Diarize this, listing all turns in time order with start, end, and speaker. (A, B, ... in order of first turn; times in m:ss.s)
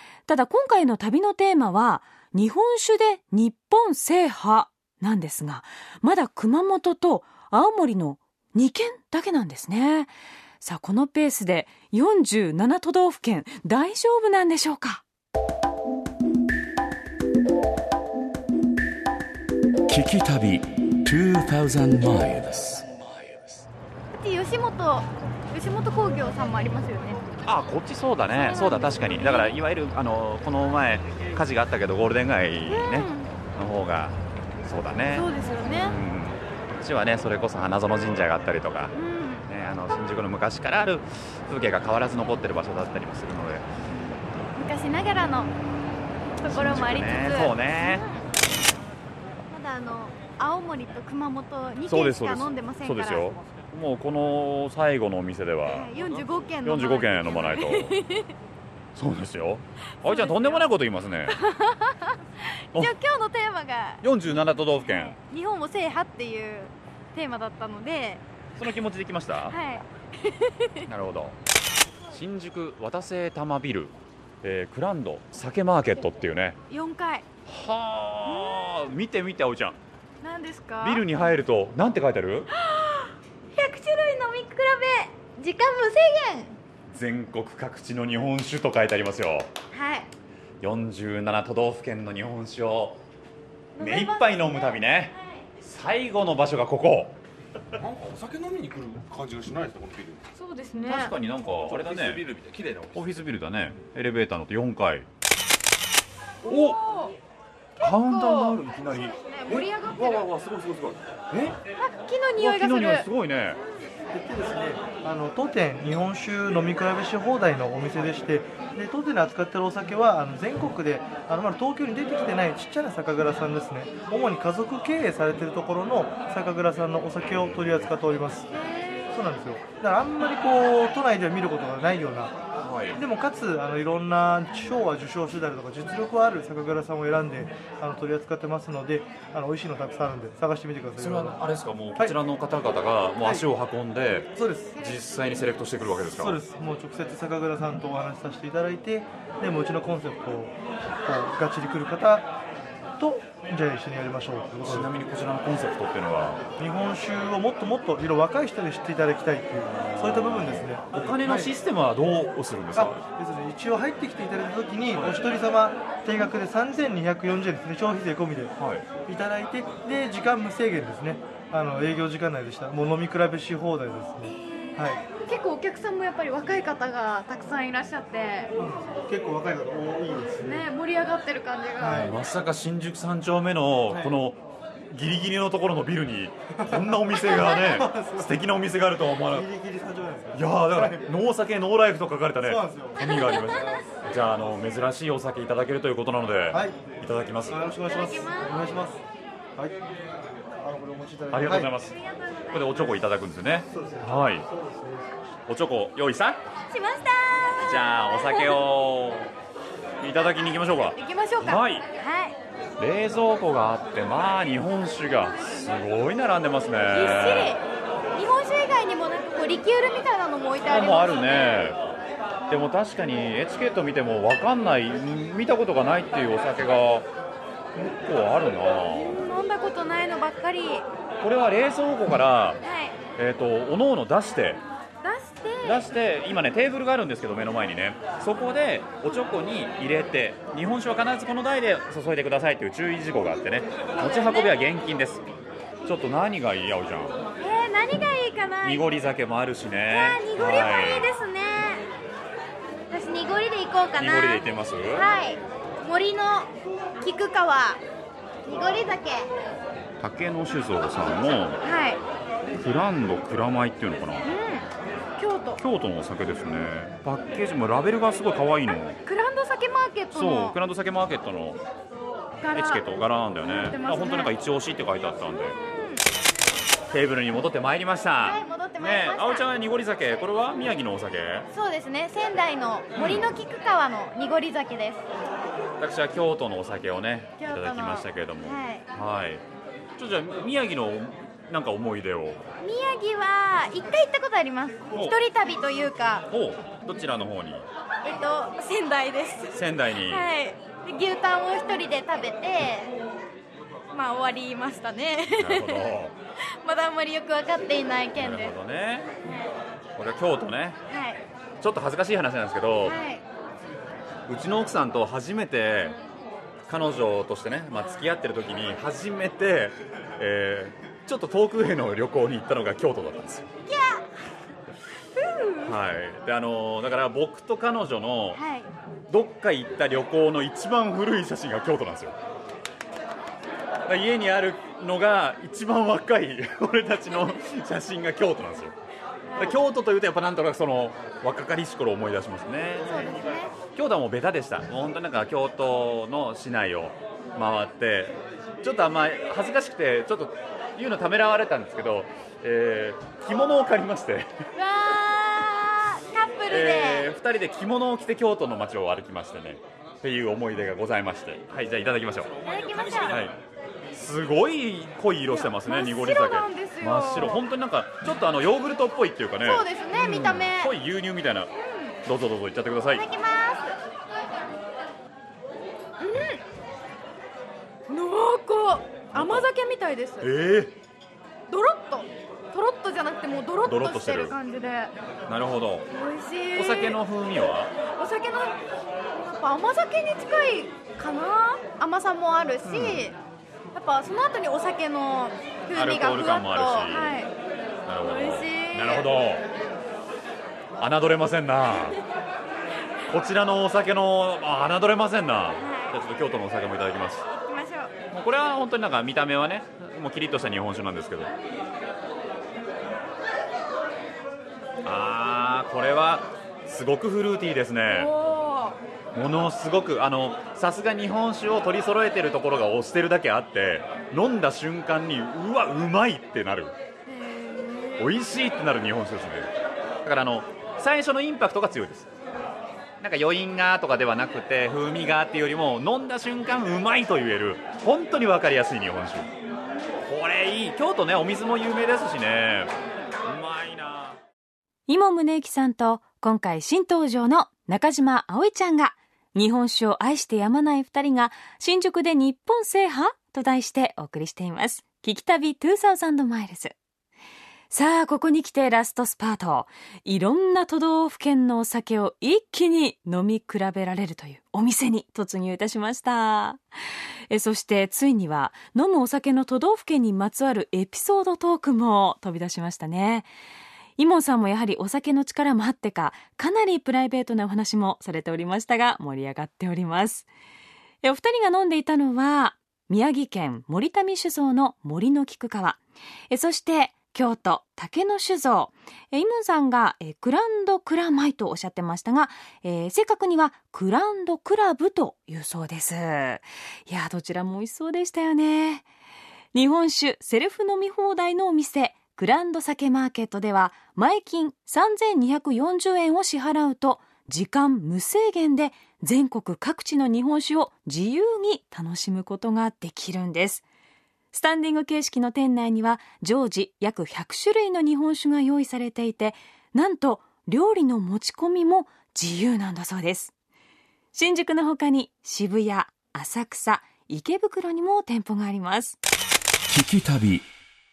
0:00.3-0:15.0 A
0:19.9-0:23.6 B
0:24.1-0:27.3 C
0:27.4-0:38.9 D
0:28.3-0:29.6 C
0:32.7-0:33.3 C
0:35.1-0:36.0 C
0:38.9-0:39.5 C
0:39.4-0:43.7 D
0:43.9-0:45.5 C
0:46.4-0:48.2 C
0:46.4-0:48.0 D
0:49.5-0:53.3 C
0:51.8-0:55.9 D
0:55.6-0:58.3 C
0:56.6-0:58.0 D
0:58.9-1:01.4 D
1:00.0-1:00.7 C
1:01.3-1:04.1 C
1:04.0-1:05.2 D
1:04.7-1:08.2 C
1:08.6-1:09.6 D
1:09.5-1:10.8 C
1:10.9-1:11.4 D
1:12.1-1:16.6 D
1:16.7-1:17.2 C
1:17.5-1:19.8 D
1:18.2-1:18.8 C
1:20.2-1:21.2 C
1:20.8-1:22.5 D
1:22.5-1:26.6 C
1:26.9-1:29.5 D
1:29.7-1:30.1 C
1:30.6-1:33.0 D
1:33.8-1:35.2 C
1:33.8-1:37.2 D
1:37.8-1:40.2 E
1:40.4-1:41.1 C
1:40.8-1:42.2 D
1:41.5-1:43.3 E
1:42.9-1:45.1 D
1:46.4-1:46.8 D
1:46.4-1:47.1 C
1:47.8-1:50.3 C
1:47.8-1:49.6 D
1:49.5-1:51.2 E
1:51.3-1:51.6 D
1:51.8-1:53.1 C
1:52.4-1:53.6 D
1:54.1-2:08.5 F
2:07.2-2:07.9 D
2:08.5-2:09.1 C
2:09.1-2:12.4 F
2:12.6-2:13.0 D
2:12.9-2:21.4 F
2:21.0-2:26.4 D
2:24.4-2:24.8 F
2:24.7-2:25.0 C
2:26.0-2:32.4 F
2:33.0-2:34.9 F
2:34.6-2:36.4 D
2:36.6-2:41.5 F
2:39.7-2:43.0 D
2:42.7-2:48.5 F
2:44.9-2:45.3 D
2:48.6-2:48.8 D
2:49.0-2:55.1 F
2:54.2-2:58.5 C
2:58.6-3:00.7 F
3:00.4-3:02.1 C
3:01.8-3:02.2 F
3:01.9-3:09.5 D
3:03.9-3:04.1 F
3:06.6-3:08.4 F
3:09.3-3:11.1 F
3:10.3-3:17.6 D
3:12.4-3:13.0 F
3:13.0-3:13.8 C
3:16.5-3:16.9 F
3:17.4-3:19.0 F
3:17.8-3:18.6 C
3:20.6-3:21.7 F
3:21.3-3:22.0 D
3:21.9-3:22.6 C
3:22.5-3:24.4 D
3:23.7-3:25.0 F
3:25.5-3:26.4 D
3:26.7-3:28.6 C
3:27.6-3:29.3 D
3:30.0-3:31.8 D
3:30.9-3:32.4 C
3:32.8-3:37.6 D
3:36.9-3:41.7 C
3:40.6-3:41.8 D
3:42.5-3:47.1 D
3:47.7-3:49.1 D
3:48.9-3:50.9 C
3:51.2-3:52.6 D
3:52.6-3:53.0 C
3:53.2-3:54.6 D
3:55.0-3:55.9 C
3:55.6-4:05.2 D
4:04.0-4:04.6 C
4:05.8-4:07.2 D
4:07.4-4:08.8 C
4:08.6-4:11.1 D
4:09.9-4:11.8 C
4:12.9-4:16.5 C
4:14.0-4:15.1 D
4:17.0-4:17.8 C
4:18.4-4:19.3 C
4:20.0-4:21.6 D
4:21.6-4:22.0 C
4:22.6-4:24.3 D
4:24.2-4:25.6 C
4:25.6-4:29.0 D
4:29.0-4:30.6 C
4:30.1-4:31.6 D
4:32.4-4:34.3 C
4:32.5-4:35.6 D
4:35.4-4:36.0 C
4:36.9-4:41.5 D
4:38.2-4:39.5 C
4:41.5-4:45.0 C
4:43.0-4:43.3 D
4:45.8-4:49.4 D
4:47.4-4:48.8 C
4:50.0-4:52.4 D
4:52.6-4:56.3 C
4:56.3-4:57.7 D
4:58.0-5:02.9 C
4:59.5-5:00.3 D
5:03.9-5:05.9 C
5:05.4-5:06.1 D
5:06.6-5:08.5 C
5:08.2-5:09.1 D
5:10.0-5:10.8 D
5:10.9-5:11.2 C
5:11.6-5:13.0 D
5:12.8-5:13.2 C
5:14.3-5:16.0 D
5:16.7-5:23.5 D
5:23.7-5:24.1 C
5:25.1-5:25.8 C
5:25.6-5:28.4 D
5:28.3-5:28.7 C
5:29.1-5:32.2 D
5:33.8-5:38.8 D
5:39.2-5:39.6 C
5:39.4-5:43.1 D
5:42.8-5:43.5 C
5:43.7-5:54.3 D
5:54.6-5:57.1 C
5:56.5-6:02.3 D
6:02.4-6:03.2 C
6:03.0-6:03.4 D
6:03.9-6:11.5 D
6:05.3-6:07.4 C
6:09.4-6:10.7 C
6:11.6-6:12.0 C
6:12.0-6:13.0 D
6:12.9-6:13.8 C
6:16.0-6:16.4 C
6:17.9-6:20.3 C
6:19.1-6:19.5 D
6:20.2-6:20.8 D
6:21.5-6:24.9 C
6:23.6-6:24.4 D
6:25.3-6:25.9 D
6:25.9-6:27.0 C
6:26.5-6:27.7 D
6:28.0-6:28.6 C
6:29.1-6:33.2 C
6:32.6-6:33.1 D
6:33.7-6:37.3 C
6:35.7-6:37.2 D
6:37.8-6:39.5 D
6:38.0-6:39.1 C
6:40.8-6:42.0 D
6:43.1-6:47.2 D
6:45.6-6:46.0 C
6:47.3-6:47.9 C
6:48.1-6:51.3 D
6:54.8-6:58.1 D
6:57.9-6:58.8 C
6:59.1-7:06.7 D
7:07.1-7:08.1 C
7:08.0-7:09.5 D
7:10.0-7:12.1 D
7:13.0-7:19.3 D
7:20.0-7:22.7 D
7:23.2-7:24.2 D
7:24.9-7:36.7 A
7:37.7-7:46.6 A
7:47.3-7:53.3 A
7:54.0-8:00.3 A
8:01.0-8:05.8 A
8:06.3-8:18.8 A
8:19.5-8:33.6 A
8:34.3-8:43.3 A
8:44.1-8:49.0 A
8:49.7-8:50.5 B